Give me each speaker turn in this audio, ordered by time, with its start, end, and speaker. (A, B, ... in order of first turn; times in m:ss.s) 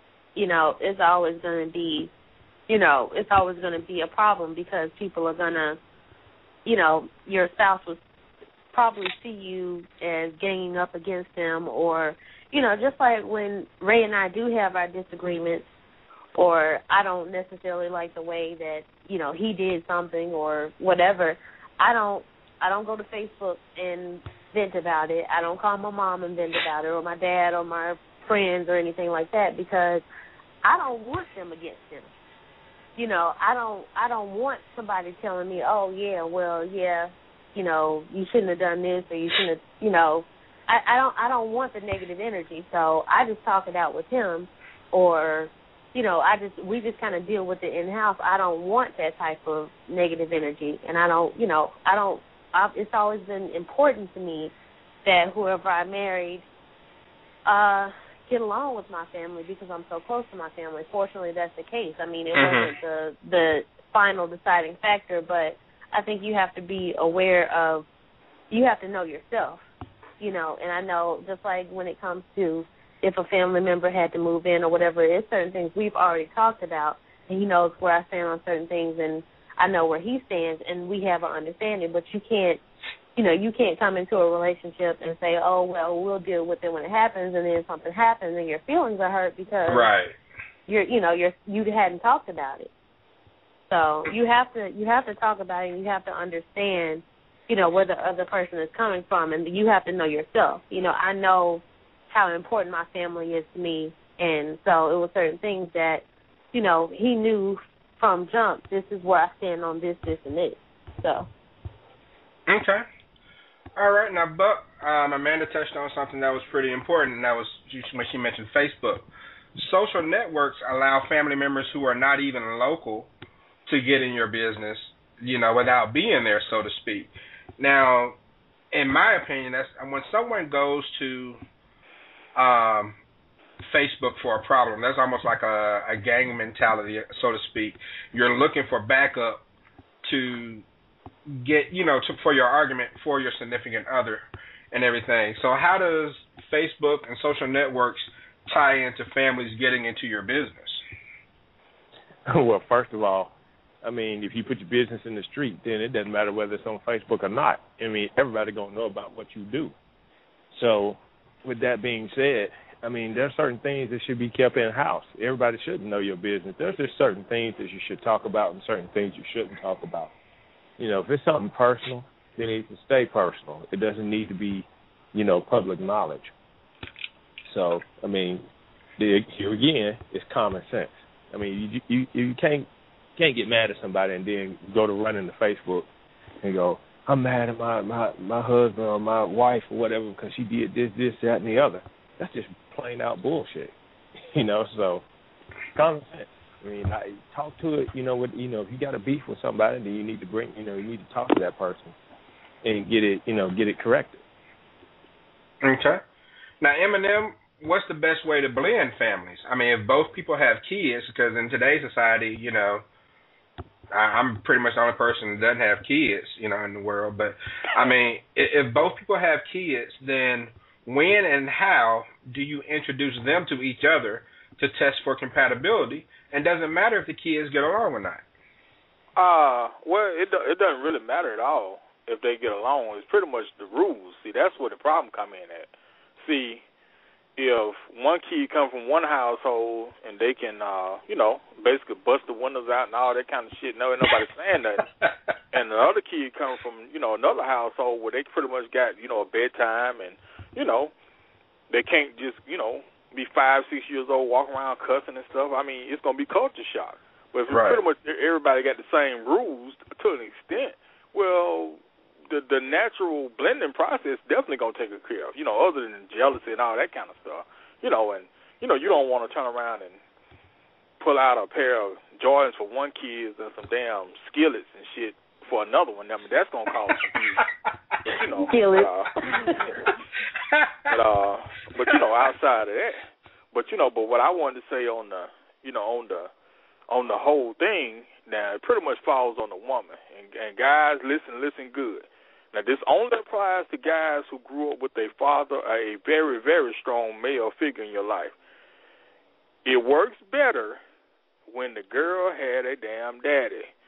0:00.3-0:02.1 A
0:02.7-0:05.8 A
0:06.6-0:08.0 A
0:08.7-0:15.6 A
0:16.4-0:30.0 A
0:30.6-0:32.1 A
0:33.0-0:54.5 A
0:55.0-0:56.4 A
0:57.4-1:07.9 A
1:02.3-1:02.7 B
1:08.5-1:09.6 A
1:10.2-1:22.6 A
1:23.2-1:29.9 A
1:29.7-1:30.2 B
1:30.7-1:32.7 A
1:33.7-1:51.3 A
1:52.5-1:52.8 B
1:53.8-2:03.1 B
2:03.6-2:08.2 B
2:08.7-2:11.4 B
2:12.4-2:13.0 B
2:13.6-2:19.4 B
2:20.0-2:20.6 B
2:21.3-2:30.8 B
2:32.3-2:39.8 C
2:40.5-2:50.1 C
2:50.8-2:56.3 C
2:57.5-2:58.4 C
2:59.0-3:05.9 C
3:06.4-3:13.7 C
3:14.3-3:15.0 C
3:15.7-3:21.9 C
3:22.6-3:24.2 C
3:25.6-3:26.0 B
3:26.6-3:32.8 B
3:33.9-3:48.2 B
3:49.2-3:56.6 D
3:57.4-4:04.9 D
4:05.5-4:10.9 D
4:11.7-4:30.0 D
4:17.5-4:17.8 B
4:31.0-4:37.4 D
4:38.2-4:39.1 D
4:38.4-4:39.5 A
4:40.6-4:40.9 B
4:40.9-4:43.0 D
4:43.5-4:46.3 D
4:46.9-4:58.3 D
4:59.6-5:00.8 D
5:01.5-5:03.7 D